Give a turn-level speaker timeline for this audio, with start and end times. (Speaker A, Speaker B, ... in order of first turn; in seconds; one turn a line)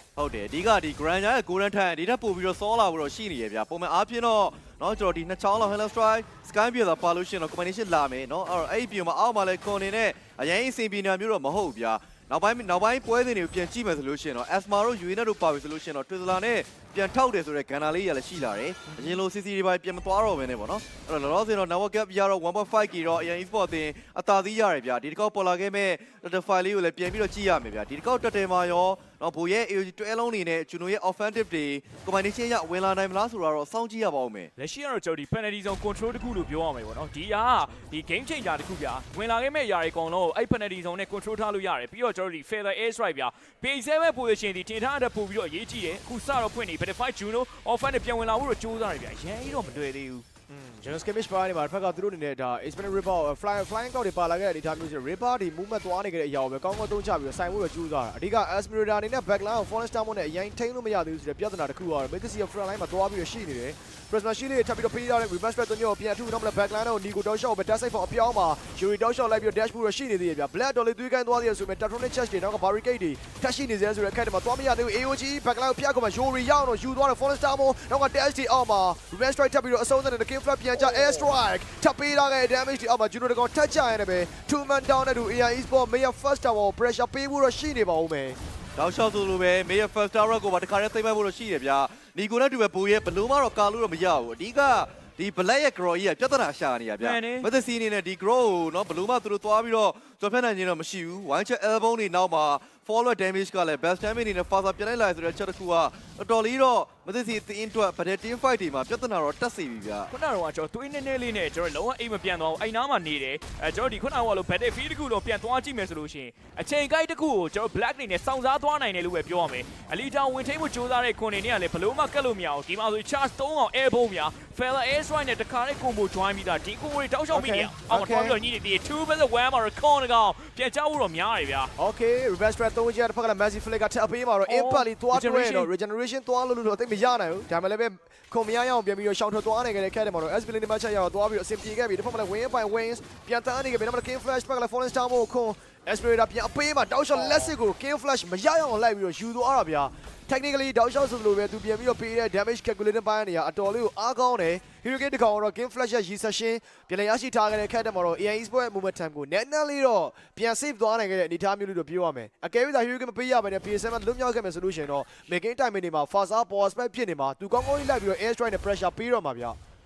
Speaker A: 0.1-34.5
Speaker B: 34.6-50.2
Speaker C: 50.5-88.4
Speaker A: 88.8-110.1
Speaker B: 97.0-97.5
Speaker B: 110.1-131.7
Speaker C: 127.3-128.4
Speaker C: 131.8-169.6
Speaker B: 134.5-135.7